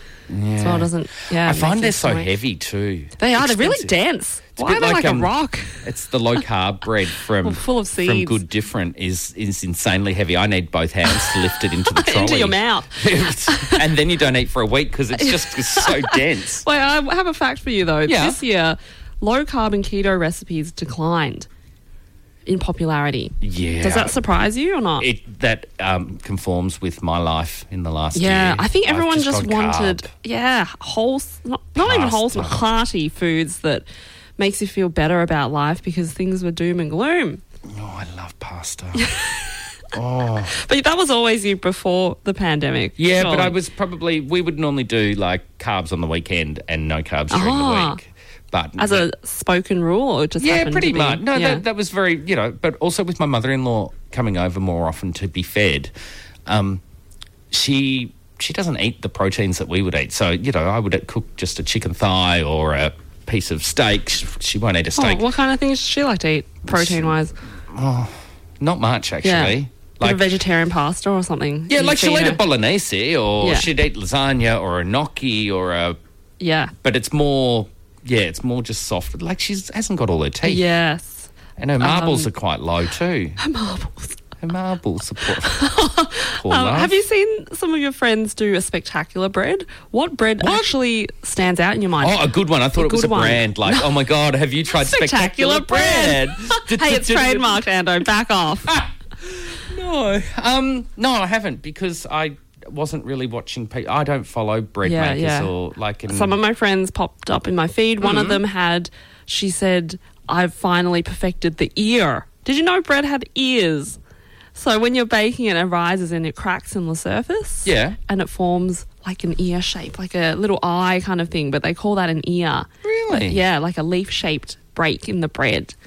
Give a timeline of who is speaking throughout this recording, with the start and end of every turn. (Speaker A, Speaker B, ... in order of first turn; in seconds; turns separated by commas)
Speaker A: 0.3-3.9, Speaker B: 0.6-2.3, Speaker B: 3.2-5.8, Speaker A: 4.5-16.6, Speaker B: 7.4-8.4, Speaker B: 11.1-13.9, Speaker B: 15.2-21.5, Speaker A: 18.1-18.4, Speaker B: 22.4-25.1, Speaker A: 23.4-24.2, Speaker A: 25.0-30.1, Speaker B: 28.1-33.9, Speaker A: 31.8-32.6, Speaker B: 34.4-37.4, Speaker A: 37.7-39.1, Speaker B: 39.0-39.4, Speaker A: 39.9-40.5, Speaker B: 40.5-43.5, Speaker A: 43.0-49.1, Speaker B: 47.3-48.0, Speaker B: 48.8-51.6, Speaker A: 50.4-55.9, Speaker A: 56.5-56.8, Speaker A: 57.5-65.2, Speaker B: 65.0-67.3, Speaker A: 66.7-67.1, Speaker A: 67.7-70.2, Speaker B: 69.2-72.4, Speaker A: 71.7-76.0, Speaker B: 73.4-73.7, Speaker B: 76.4-76.7, Speaker A: 76.8-80.6, Speaker B: 80.4-82.3, Speaker A: 81.6-83.4, Speaker B: 83.4-84.2, Speaker A: 84.4-85.7, Speaker B: 85.5-92.2, Speaker A: 86.2-87.0, Speaker A: 90.4-90.7, Speaker A: 92.0-97.6, Speaker B: 92.7-93.9, Speaker B: 94.8-98.8, Speaker A: 98.7-106.3, Speaker B: 104.8-105.5, Speaker B: 106.1-114.0, Speaker A: 108.0-108.4, Speaker B: 114.5-125.7, Speaker A: 117.6-118.0, Speaker A: 122.8-123.4